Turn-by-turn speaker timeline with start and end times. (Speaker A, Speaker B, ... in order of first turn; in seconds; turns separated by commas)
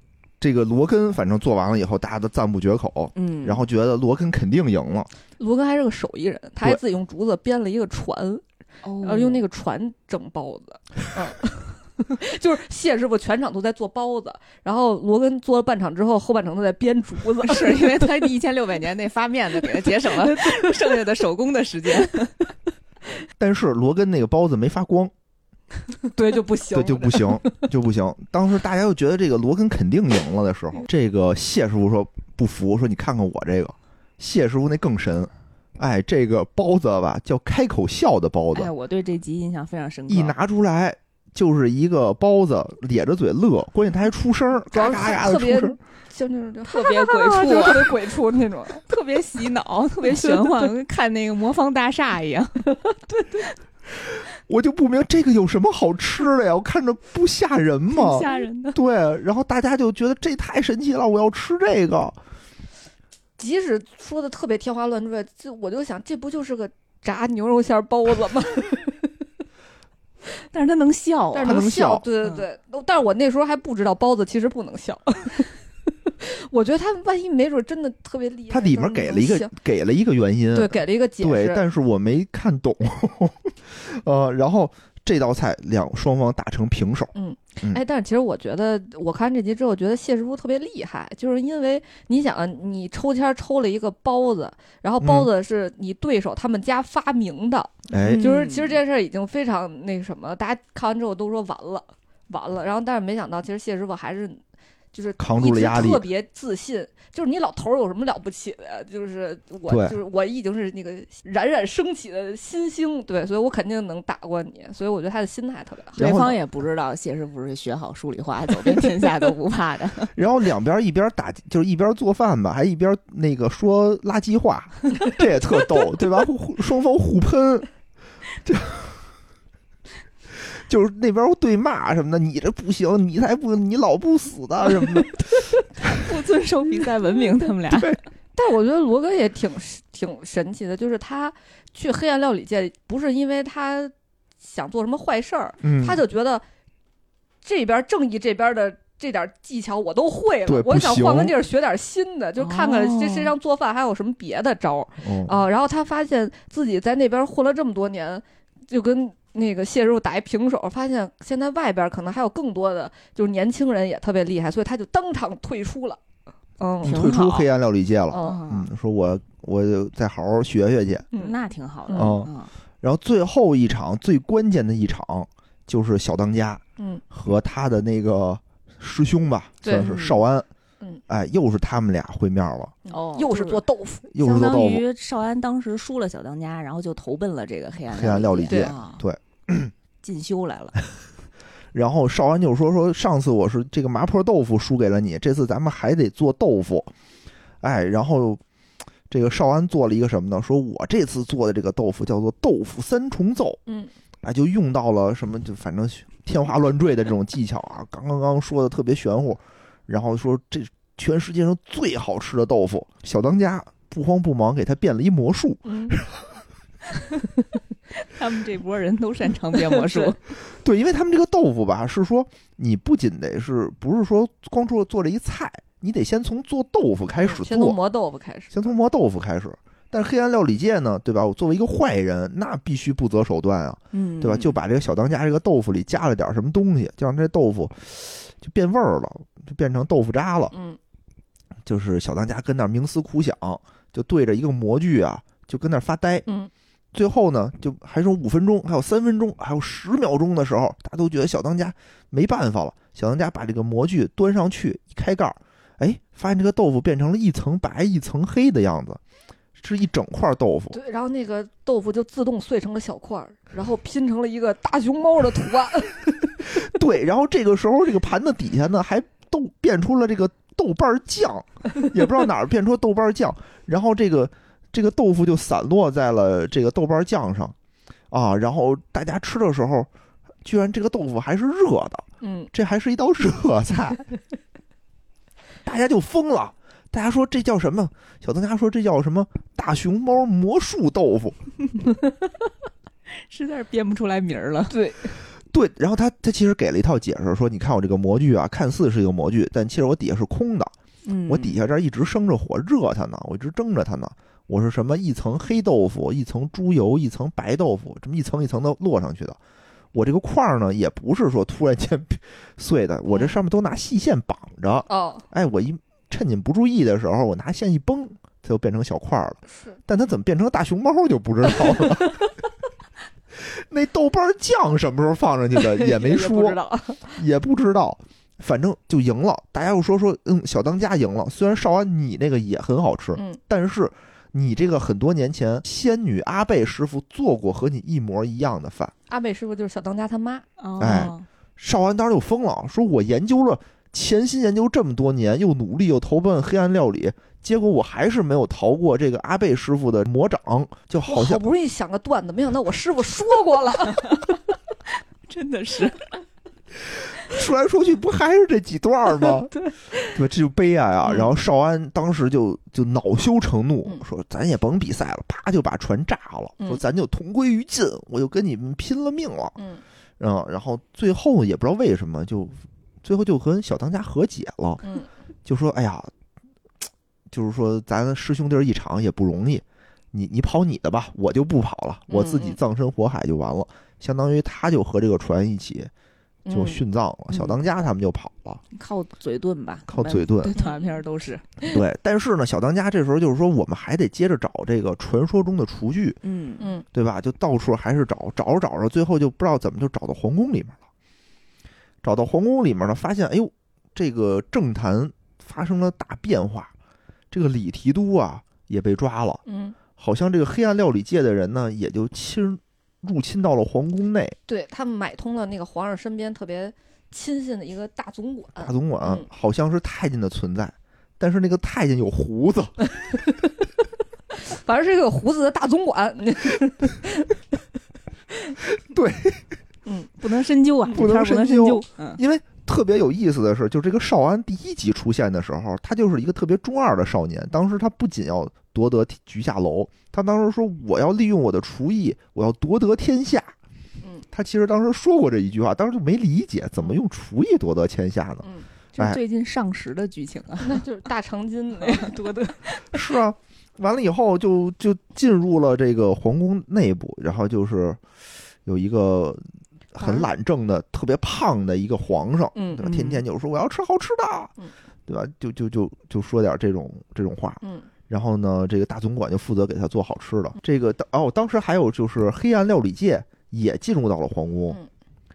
Speaker A: 0.4-5.1, Speaker B: 3.1-3.6, Speaker C: 5.4-8.4, Speaker B: 8.8-9.4, Speaker C: 9.0-18.3, Speaker B: 17.4-22.4, Speaker C: 19.7-21.0, Speaker A: 23.4-25.1, Speaker C: 26.0-27.6, Speaker A: 26.7-38.7, Speaker B: 38.5-40.4, Speaker A: 40.1-45.8, Speaker C: 44.7-48.9, Speaker B: 46.7-48.0, Speaker B: 48.9-52.7, Speaker C: 50.1-50.7, Speaker C: 52.9-53.5, Speaker A: 54.1-62.2, Speaker B: 57.9-58.8, Speaker C: 63.4-69.1, Speaker B: 70.5-71.7, Speaker C: 71.3-75.5, Speaker A: 71.4-72.0, Speaker C: 76.1-79.5, Speaker A: 78.5-87.8, Speaker C: 80.5-81.6, Speaker C: 87.2-104.4, Speaker A: 95.0-95.3, Speaker A: 97.9-98.3, Speaker B: 98.0-98.8, Speaker C: 104.9-116.1, Speaker A: 105.2-106.1, Speaker A: 109.7-110.0, Speaker A: 116.0-116.4, Speaker B: 116.0-120.1, Speaker A: 120.2-127.7, Speaker A: 128.4-129.0, Speaker A: 130.5-135.9, Speaker B: 135.8-138.0, Speaker A: 137.7-138.0, Speaker C: 138.4-146.4, Speaker A: 145.6-146.0, Speaker C: 147.4-166.0, Speaker A: 150.4-151.3, Speaker B: 152.4-153.3, Speaker A: 155.0-155.4, Speaker C: 166.6-167.0, Speaker B: 166.8-167.5, Speaker A: 166.8-171.1, Speaker C: 168.1-168.4, Speaker B: 168.2-168.7, Speaker B: 171.1-172.5, Speaker C: 171.9-172.2, Speaker A: 171.9-172.3, Speaker A: 172.8-180.5, Speaker C: 176.8-177.0, Speaker C: 179.6-179.9, Speaker B: 179.7-180.2, Speaker A: 181.1-182.7, Speaker B: 182.9-183.6, Speaker C: 182.9-184.1, Speaker A: 184.1-184.8, Speaker B: 184.2-189.0, Speaker A: 187.9-189.7, Speaker C: 188.5-188.7, Speaker B: 190.0-190.8, Speaker A: 191.7-196.9, Speaker A: 197.6-198.4, Speaker A: 199.1-203.6, Speaker A: 204.2-216.2, Speaker C: 215.7-216.0, Speaker B: 218.0-220.2, Speaker C: 219.7-220.1, Speaker A: 220.5-227.8, Speaker C: 227.2-228.7, Speaker A: 228.5-240.5, Speaker B: 233.9-234.6, Speaker C: 240.5-240.8, Speaker A: 241.7-246.3, Speaker A: 246.9-259.0, Speaker A: 259.6-260.8, Speaker C: 260.7-266.5, Speaker A: 266.5-277.6, Speaker A: 278.1-279.9, Speaker A: 280.4-284.0, Speaker C: 282.2-282.5, Speaker A: 285.6-291.4, Speaker B: 293.3-294.8, Speaker C: 294.7-295.1, Speaker A: 295.5-300.7, Speaker B: 301.1-301.6, Speaker A: 301.3-309.4, Speaker A: 309.9-322.2, Speaker C: 314.9-315.2, Speaker C: 321.8-322.3, Speaker A: 323.4-326.6, Speaker C: 325.6-327.2, Speaker A: 327.1-338.9, Speaker C: 339.1-340.5, Speaker B: 340.6-341.2, Speaker A: 340.8-351.4, Speaker C: 351.1-354.4, Speaker B: 355.3-356.1, Speaker A: 357.2-359.5, Speaker C: 359.3-360.2, Speaker A: 360.1-369.6, Speaker C: 361.1-361.3, Speaker A: 370.2-374.8, Speaker C: 374.8-375.1, Speaker A: 375.5-376.1, Speaker A: 377.3-385.9, Speaker C: 382.1-382.6, Speaker C: 386.5-386.8, Speaker A: 386.5-388.6, Speaker B: 387.3-387.6, Speaker B: 388.7-391.4, Speaker A: 389.9-390.5, Speaker C: 390.5-390.9, Speaker A: 391.7-396.2, Speaker B: 396.2-396.7, Speaker C: 396.6-396.9, Speaker A: 396.9-400.8, Speaker A: 402.0-406.7, Speaker A: 407.3-409.4, Speaker C: 409.5-409.8, Speaker A: 410.0-414.4, Speaker C: 414.5-419.3, Speaker A: 418.6-422.9, Speaker C: 424.3-427.4, Speaker A: 428.8-429.4, Speaker C: 429.9-430.1, Speaker B: 430.2-432.2, Speaker A: 430.9-443.6, Speaker A: 444.3-449.2, Speaker B: 449.0-450.8, Speaker C: 450.6-453.0, Speaker A: 452.9-458.0, Speaker A: 458.6-459.4, Speaker A: 459.9-464.5, Speaker C: 460.0-460.3, Speaker C: 462.6-462.9, Speaker B: 462.8-463.2, Speaker A: 465.1-474.8, Speaker C: 467.6-467.9